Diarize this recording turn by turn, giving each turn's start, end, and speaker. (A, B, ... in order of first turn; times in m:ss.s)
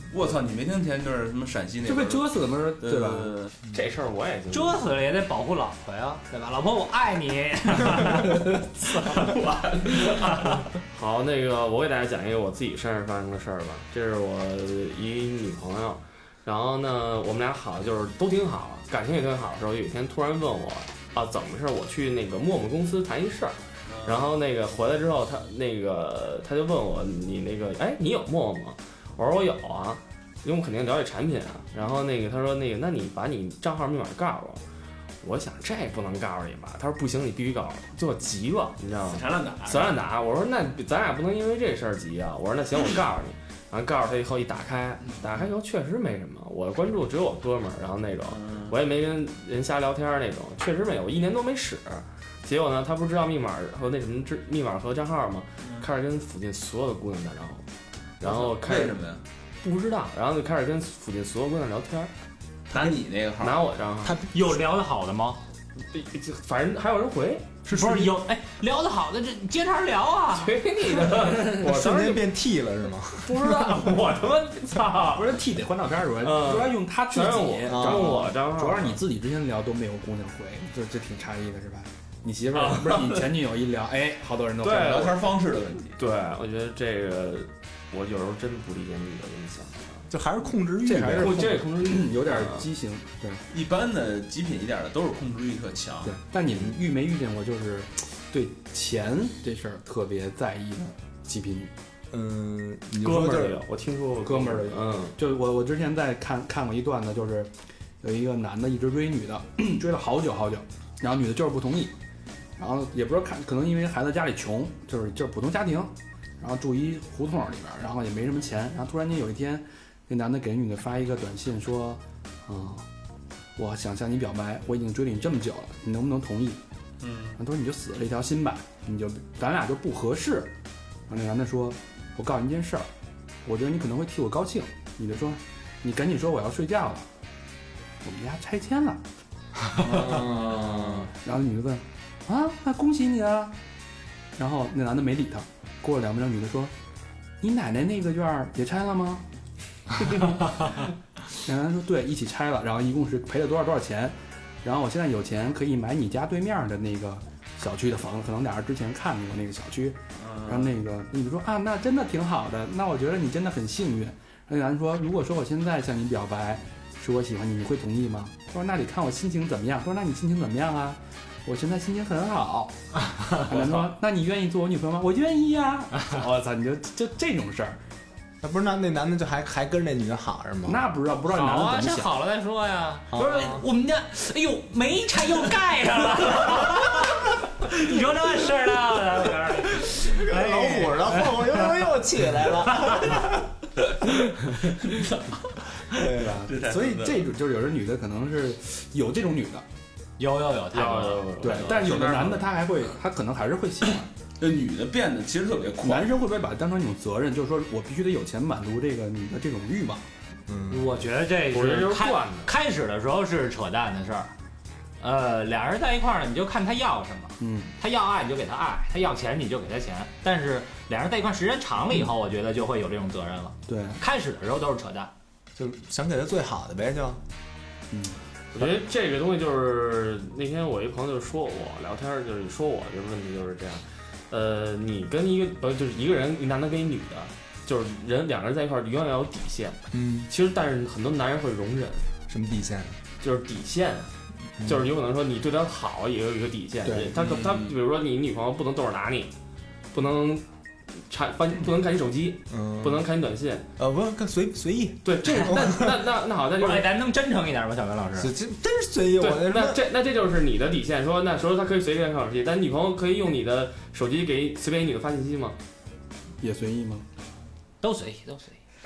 0:00.1-0:03.5 A
0:01.8-0:03.4 B
0:03.7-0:04.8 C
0:04.5-0:09.3 D
0:08.9-0:34.6 C
0:09.9-0:10.6 D
0:23.9-0:24.3 A
0:35.2-0:57.6 C
0:39.0-0:40.0 A
0:48.3-0:48.7 A
0:58.2-0:59.0 C
0:58.2-0:59.2 A
0:59.6-1:02.1 C
1:02.7-1:03.6 A
1:03.4-1:04.2 C
1:04.1-1:04.6 E
1:04.2-1:05.4 D
1:05.9-1:07.5 C
1:07.6-1:08.1 E
1:07.7-1:10.6 D
1:10.3-1:12.3 C
1:11.2-1:13.9 E
1:13.2-1:15.3 C
1:15.1-1:25.1 B
1:16.2-1:19.0 C
1:17.6-1:18.2 E
1:22.5-1:23.3 C
1:24.6-1:25.2 C
1:24.7-1:26.0 A
1:26.0-1:30.1 C
1:30.1-1:31.6 E
1:30.8-1:33.4 B
1:31.0-1:32.7 C
1:33.5-1:36.2 A
1:36.0-1:41.7 B
1:42.1-1:43.6 E
1:43.0-1:45.2 C
1:44.2-1:52.0 B
1:52.6-2:02.8 B
2:03.6-2:06.6 B
2:07.0-2:07.4 A
2:07.4-2:10.5 B
2:11.1-2:12.9 B
2:13.4-2:17.1 B
2:18.0-2:19.0 B
2:19.8-2:21.0 A
2:19.9-2:21.1 E
2:20.2-2:23.6 B
2:24.4-2:26.7 B
2:27.4-2:29.2 B
2:30.0-2:30.8 B
2:31.3-2:57.8 B
2:40.2-2:40.7 A
2:53.0-2:53.5 D
2:58.4-3:00.9 E
3:00.7-3:02.1 B
3:01.3-3:11.9 D
3:03.1-3:03.6 E
3:09.9-3:13.5 E
3:12.5-3:13.2 D
3:15.9-3:16.3 E
3:16.0-3:19.6 B
3:16.4-3:17.3 A
3:20.2-3:21.7 D
3:20.7-3:22.5 C
3:21.4-3:24.1 B
3:24.4-3:26.1 A
3:25.8-3:30.0 B
3:30.5-3:30.9 E
3:30.7-3:34.3 D
3:31.5-3:32.5 C
3:35.0-3:45.1 D
3:37.4-3:37.7 B
3:43.7-3:44.0 B
3:45.6-3:47.2 E
3:47.9-3:48.7 B
3:48.5-4:02.0 C
3:59.9-4:00.3 E
4:02.3-4:03.0 E
4:03.2-4:04.1 C
4:04.6-4:04.9 E
4:04.6-4:09.3 C
4:06.8-4:07.1 B
4:07.2-4:07.8 A
4:09.9-4:10.4 C
4:11.1-4:13.7 C
4:12.5-4:13.0 E
4:13.8-4:15.9 E
4:15.0-4:16.9 C
4:16.6-4:18.3 D
4:18.2-4:19.8 E
4:19.2-4:25.6 C
4:26.4-4:27.0 B
4:27.8-4:28.6 D